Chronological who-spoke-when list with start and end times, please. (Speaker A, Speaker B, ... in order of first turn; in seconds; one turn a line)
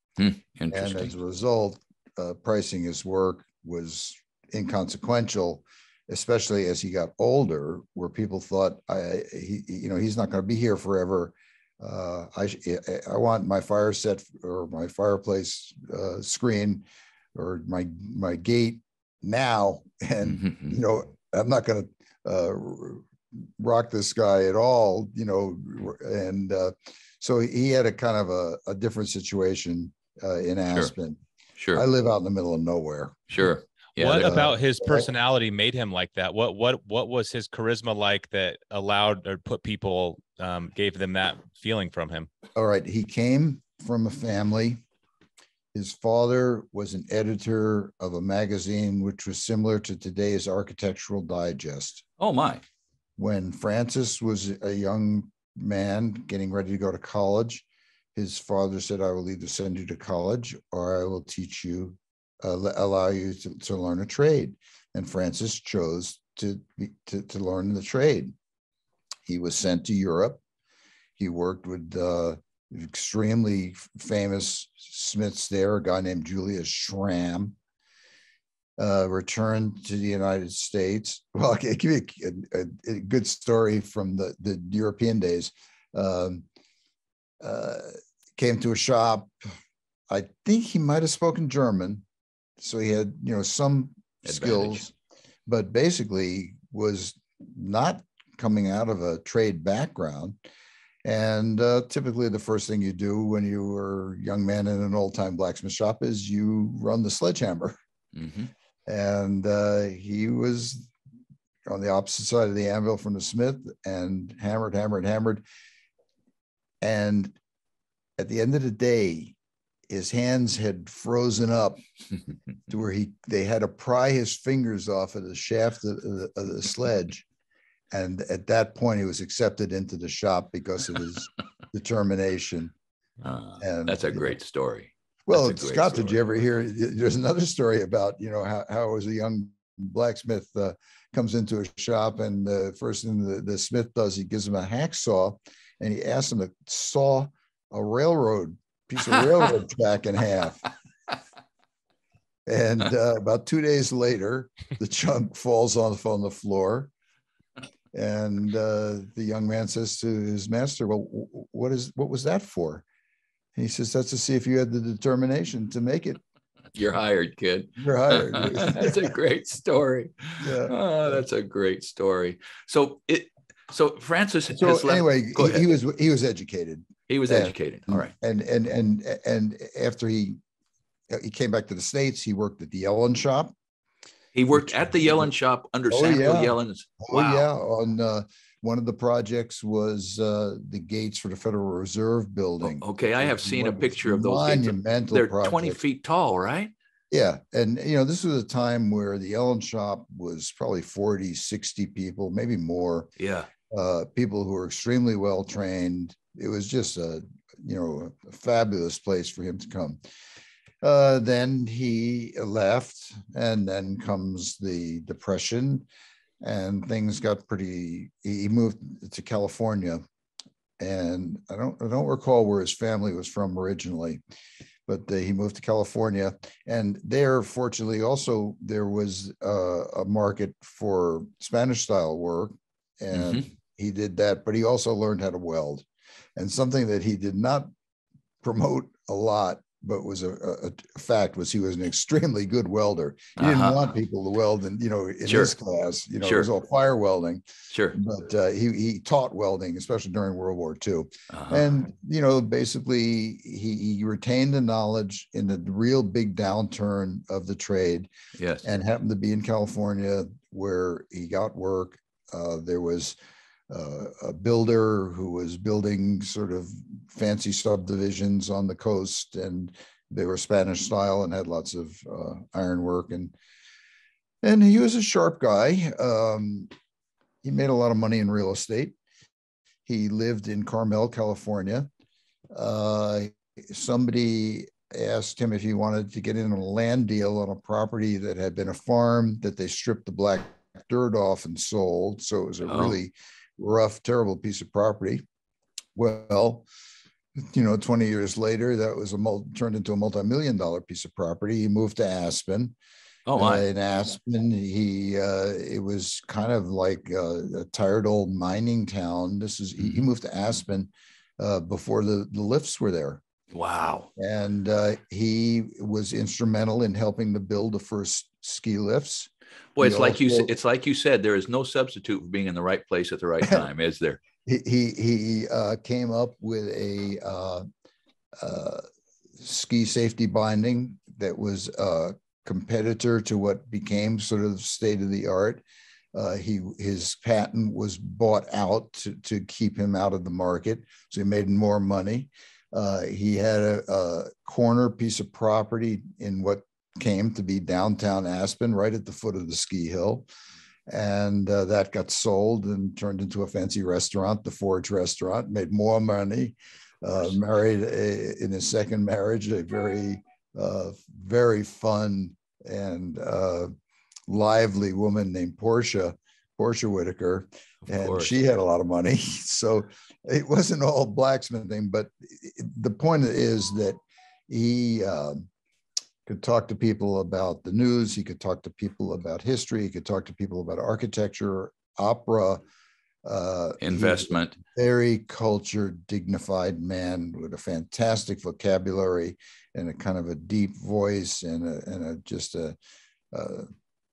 Speaker A: 0.2-1.1
Speaker B: 0.7-31.2
Speaker A: 20.2-20.8
Speaker A: 31.6-31.9
Speaker B: 31.7-33.5
Speaker A: 33.3-34.5
Speaker C: 34.0-42.3
Speaker B: 34.1-35.1
Speaker B: 42.6-44.8
Speaker B: 45.7-52.0
Speaker A: 52.2-52.6
Speaker B: 53.2-68.3
Speaker B: 69.3-70.4
Speaker B: 71.2-77.6
Speaker B: 78.8-86.5
Speaker B: 87.4-89.3
Speaker B: 90.1-92.0
Speaker B: 92.6-94.9
Speaker A: 94.3-94.8
Speaker B: 95.5-100.4
Speaker B: 101.0-107.8
Speaker A: 108.2-108.5
Speaker B: 108.9-110.9
Speaker B: 111.7-115.4
Speaker B: 116.8-117.4
Speaker B: 118.2-119.4
Speaker B: 119.9-121.8
Speaker B: 122.7-127.3
Speaker B: 127.9-132.7
Speaker A: 133.2-136.2
Speaker B: 133.6-134.4
Speaker B: 135.3-150.7
Speaker B: 152.5-156.9
Speaker B: 157.9-162.8
Speaker B: 163.6-166.2
Speaker A: 166.7-175.7
Speaker B: 167.8-169.2
Speaker B: 170.4-170.7
Speaker B: 174.5-180.4
Speaker A: 177.1-178.1
Speaker B: 181.1-183.5
Speaker A: 184.3-187.5
Speaker B: 184.5-185.3
Speaker B: 185.9-195.8
Speaker A: 192.6-196.7
Speaker B: 197.1-203.1
Speaker A: 203.2-203.5
Speaker B: 203.7-210.0
Speaker B: 210.8-215.9
Speaker B: 216.4-220.0
Speaker B: 220.8-224.2
Speaker B: 224.9-235.8
Speaker A: 233.1-233.5
Speaker B: 236.4-237.7
Speaker B: 238.4-258.1
Speaker A: 243.4-243.9
Speaker A: 245.3-245.6
Speaker A: 246.2-246.5
Speaker A: 247.7-248.0
Speaker A: 251.3-251.7
Speaker A: 258.4-258.7
Speaker B: 258.6-263.2
Speaker B: 263.7-273.3
Speaker B: 274.4-276.7
Speaker B: 277.4-279.0
Speaker B: 279.9-281.9
Speaker B: 282.5-295.2
Speaker A: 292.7-293.0
Speaker B: 295.9-296.7
Speaker B: 297.4-302.8
Speaker A: 303.3-303.7
Speaker B: 303.4-313.2
Speaker A: 313.5-314.1
Speaker B: 314.2-320.5
Speaker A: 319.8-324.2
Speaker B: 324.4-327.6
Speaker B: 328.4-328.8
Speaker B: 329.4-335.6
Speaker B: 336.1-350.3
Speaker B: 350.9-363.7
Speaker B: 364.3-375.5
Speaker A: 367.9-368.3
Speaker B: 376.3-382.6
Speaker B: 383.2-392.8
Speaker A: 383.8-384.6
Speaker B: 393.3-393.7